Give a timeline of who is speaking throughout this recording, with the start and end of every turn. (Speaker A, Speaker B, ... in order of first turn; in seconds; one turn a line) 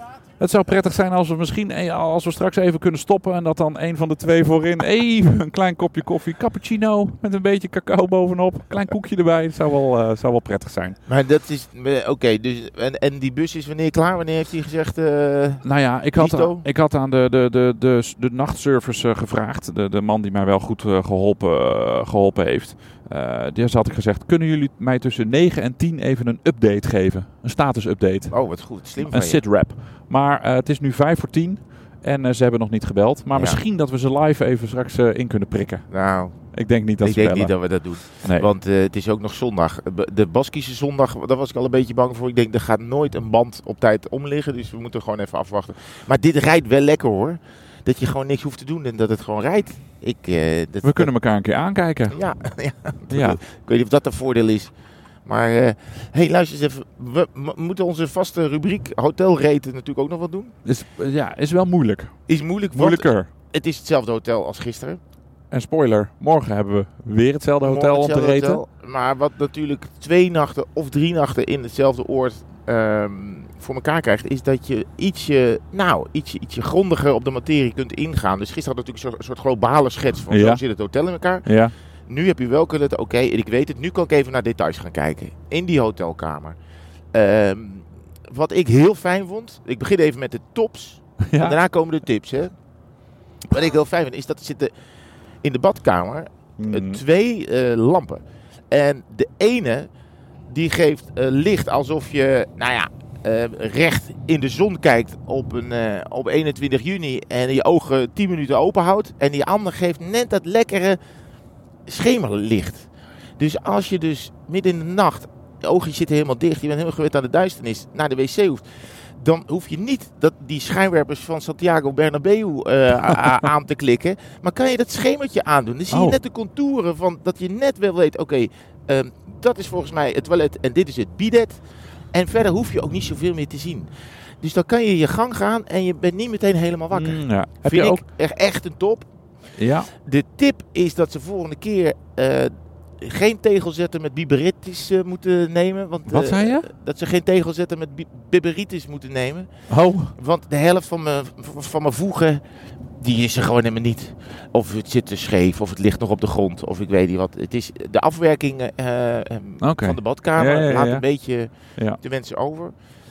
Speaker A: 0.4-11.0
Speaker B: 11.1-16.7
Speaker A: 15.6-28.4
Speaker B: 28.3-29.4
Speaker A: 29.0-35.9
Speaker B: 33.3-33.6
Speaker B: 35.9-36.4
Speaker A: 36.5-37.5
Speaker B: 37.0-51.1
Speaker A: 38.1-38.5
Speaker A: 50.8-52.2
Speaker B: 52.1-54.7
Speaker A: 53.1-53.4
Speaker B: 55.3-60.5
Speaker A: 60.6-62.2
Speaker B: 62.3-65.0
Speaker A: 62.7-63.3
Speaker A: 65.5-68.6
Speaker B: 67.6-81.5
Speaker A: 80.3-80.6
Speaker A: 81.5-81.7
Speaker B: 82.1-86.6
Speaker B: 87.1-92.5
Speaker A: 91.2-91.6
Speaker B: 93.5-94.7
Speaker B: 95.4-99.9
Speaker A: 96.6-97.0
Speaker B: 100.5-111.0
Speaker B: 111.9-131.6
Speaker A: 125.9-126.2
Speaker B: 132.1-133.9
Speaker B: 134.4-139.1
Speaker A: 136.9-138.0
Speaker A: 139.6-139.9
Speaker B: 140.1-149.5
Speaker A: 146.1-146.7
Speaker A: 149.7-150.1
Speaker B: 150.2-152.4
Speaker B: 153.0-162.7
Speaker A: 159.6-161.1